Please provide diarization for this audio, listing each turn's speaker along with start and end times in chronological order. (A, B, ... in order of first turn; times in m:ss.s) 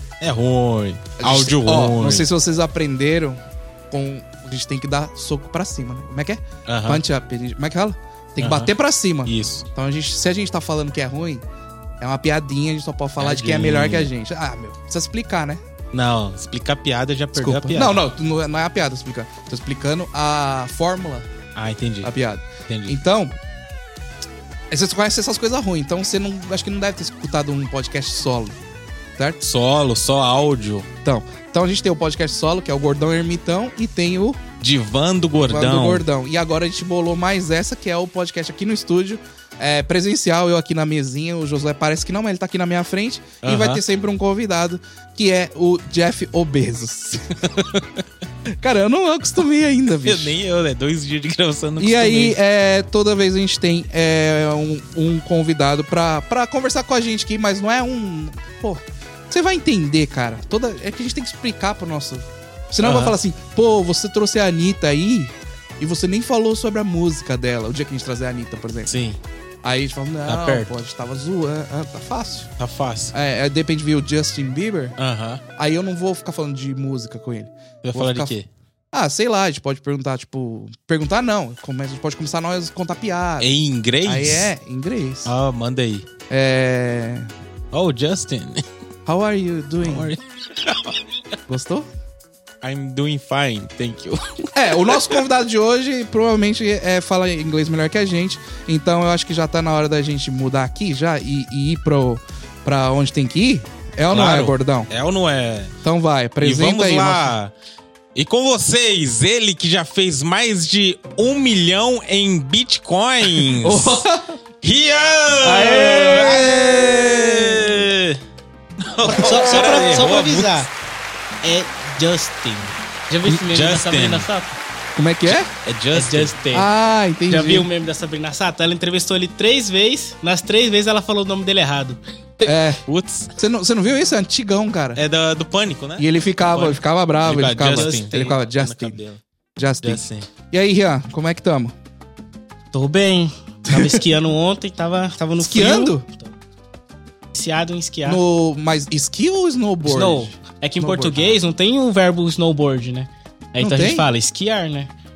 0:00.2-0:02.3 A
0:01.2-0:03.4 B
0:03.9-0:11.4 B
0:06.7-0:07.0 A
0:08.4-0:08.7 A
0:09.2-0:09.7 A
0:12.0-0:15.6 B
0:13.2-0:14.1 A
0:15.9-0:18.0 A
0:17.4-0:21.3 B
0:21.6-0:22.1 A
0:22.0-0:23.3 B
0:22.7-0:23.0 A
0:24.7-0:28.6 B
0:29.4-0:30.9 A
0:31.0-0:34.4 B
0:34.6-0:36.0 A
0:35.4-0:47.5 B
0:43.4-0:43.8 A
0:47.5-0:47.8 A
0:48.5-0:50.3 B
0:50.0-0:52.4 A
0:51.8-1:08.9 B
1:02.8-1:03.2 A
1:08.9-1:09.2 A
1:09.6-1:12.5 B
1:10.3-1:10.7 A
1:12.6-1:13.1 A
1:13.1-1:15.0 B
1:15.0-1:15.4 A
1:15.6-1:18.3 B
1:17.8-1:18.5 A
1:18.9-1:23.5 B
1:23.4-1:24.5 A
1:24.0-1:25.3 B
1:25.2-1:26.1 A
1:26.3-1:27.3 B
1:27.7-1:28.6 A
1:29.1-1:30.1 B
1:29.8-1:31.0 A
1:31.5-1:31.9 B
1:32.6-1:35.2 A
1:34.6-1:44.9 B
1:44.1-1:45.7 A
1:45.8-1:47.3 B
1:46.4-1:47.5 A
1:48.2-1:54.1 A
1:53.6-1:54.3 B
1:54.6-1:58.2 A
1:55.4-1:57.7 B
1:58.8-2:00.7 A
1:59.0-2:00.7 C
1:59.1-1:59.6 B
2:01.4-2:04.6 C
2:03.5-2:04.3 A
2:05.0-2:05.5 B
2:05.3-2:06.4 A
2:05.9-2:06.7 C
2:06.5-2:07.7 B
2:07.3-2:12.4 C
2:12.4-2:12.8 B
2:12.9-2:13.3 A
2:13.4-2:15.0 B
2:15.0-2:19.2 A
2:16.0-2:19.0 B
2:17.7-2:18.4 C
2:19.6-2:21.7 B
2:19.8-2:20.3 A
2:22.7-2:26.2 C
2:23.7-2:24.0 B
2:25.4-2:26.1 B
2:27.3-2:28.2 C
2:28.0-2:31.4 B
2:29.8-2:34.9 C
2:33.6-2:34.1 B